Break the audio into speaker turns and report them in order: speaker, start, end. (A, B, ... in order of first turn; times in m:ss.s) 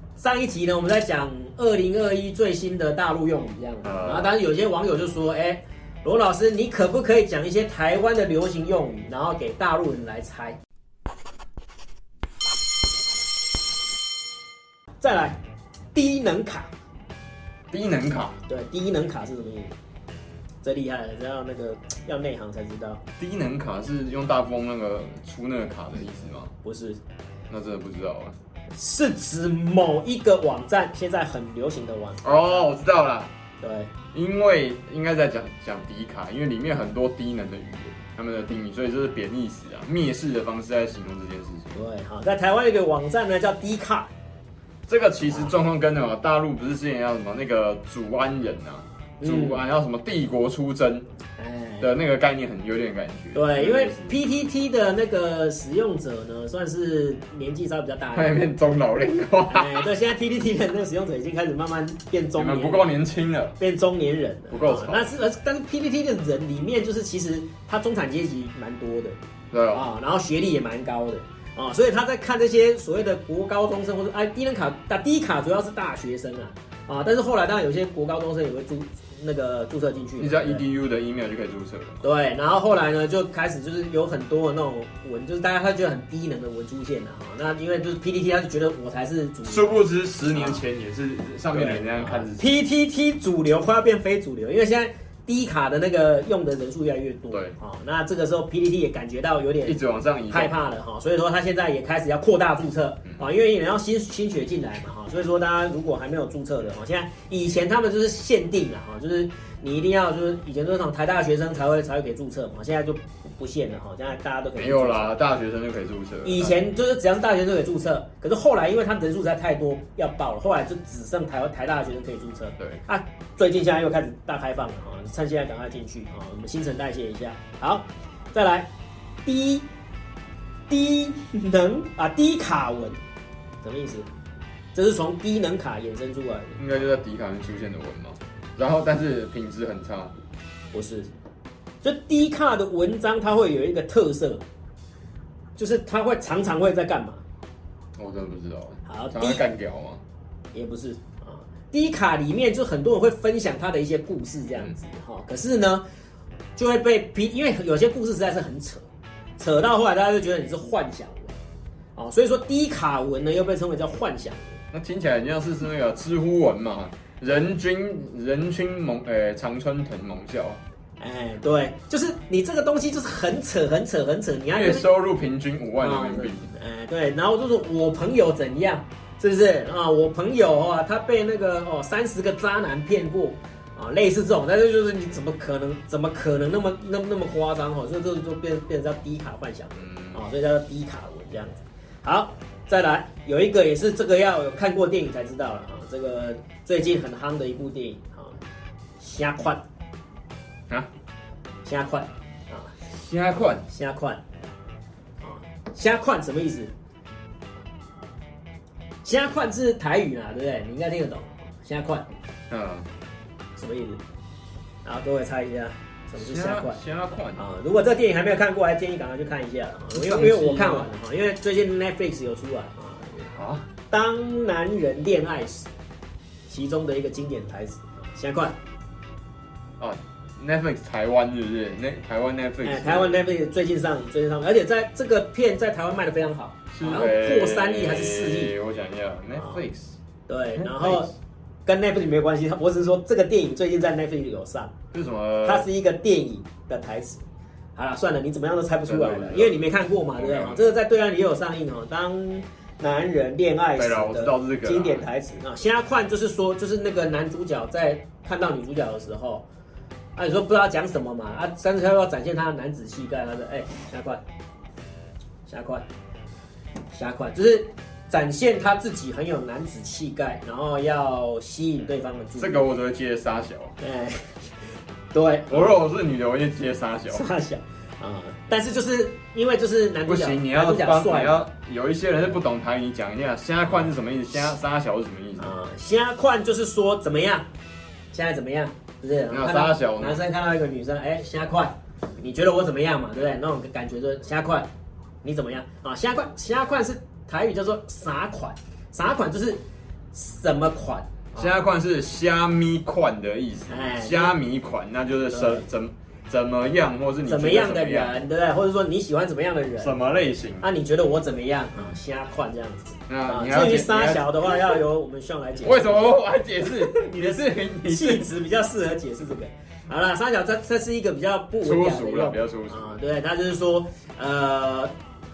0:00.2-0:10.6 A
0:03.8-0:04.3 B
0:15.0-0:15.4 A
0:15.9-0:16.7 A
0:17.7-0:18.4 B
0:18.5-0:19.7 A
0:20.6-0:23.0 A
0:23.2-0:26.5 B
0:26.6-0:27.0 A
0:27.5-0:28.4 B
0:28.7-0:32.7 A
0:32.2-0:33.3 B
0:33.6-0:33.9 A
0:34.1-0:41.8 B
0:41.7-0:44.1 A
0:44.9-0:51.1 B
0:45.3-0:45.5 A
0:49.2-0:49.6 A
0:51.4-0:51.9 A
0:51.8-0:54.2 B
0:53.4-0:58.4 A
0:58.1-0:59.9 B
0:59.5-1:02.9 A
1:02.4-1:03.6 B
1:03.6-1:09.2 A
1:04.5-1:05.1 B
1:09.5-1:09.9 B
1:09.7-1:20.6 A
1:20.2-1:22.0 B
1:22.0-1:30.6 A
1:29.4-1:32.5 B
1:31.5-1:39.8 A
1:39.6-1:40.6 B
1:40.3-1:55.2 A
1:54.6-1:56.6 B
1:56.2-2:08.7 A
2:09.2-2:09.7 A
2:10.7-2:13.0 A
2:13.6-2:14.1 A
2:14.7-2:16.9 A
2:16.6-2:20.2 B
2:20.7-2:21.1 A
2:21.8-2:24.4 A
2:25.6-2:27.2 A
2:28.0-2:30.0 B
2:28.9-2:29.4 A
2:30.5-2:35.8 A
2:36.6-2:38.9 A
2:39.4-2:41.4 A
2:42.0-2:44.6 A
2:44.7-2:50.6 B
2:51.0-2:54.9 A
2:54.5-2:56.5 B
2:55.8-3:18.4 A
3:09.8-3:10.2 B
3:19.0-3:19.6 A
3:21.6-3:22.7 A
3:22.9-3:23.6 B
3:23.6-3:24.2 A
3:25.2-3:26.7 A
3:29.0-3:32.1 A
3:32.5-3:32.9 B
3:33.6-3:34.0 A
3:34.8-3:36.8 A
3:36.2-3:37.4 B
3:37.4-3:43.3 A
3:39.9-3:40.9 B
3:43.3-3:43.7 B
3:43.9-3:45.7 A
3:46.5-3:48.6 A
3:49.8-3:53.2 B
3:52.6-3:58.5 A
3:56.7-4:00.0 B
4:00.3-4:01.1 A
4:00.6-4:01.1 B
4:01.7-4:04.7 A
4:04.9-4:05.7 B
4:05.4-4:07.2 A
4:07.8-4:19.4 A
4:08.9-4:10.8 B
4:13.8-4:15.0 B
4:20.2-4:24.2 A
4:25.5-4:25.9 A
4:26.9-4:32.7 A
4:32.4-4:33.8 B
4:33.8-4:34.6 A
4:35.1-4:35.8 A
4:35.5-4:37.3 B
4:37.1-4:41.4 A
4:40.0-4:45.6 B
4:45.4-4:47.5 A
4:48.1-4:54.7 A
4:49.3-4:50.2 B
4:55.2-4:59.6 A
5:00.1-5:01.6 A
5:01.3-5:08.2 B
5:03.7-5:04.4 A
5:05.3-5:05.6 A
5:07.3-5:24.9 A
5:09.8-5:10.7 B
5:13.1-5:14.8 B
5:15.6-5:18.3 B
5:21.6-5:23.0 B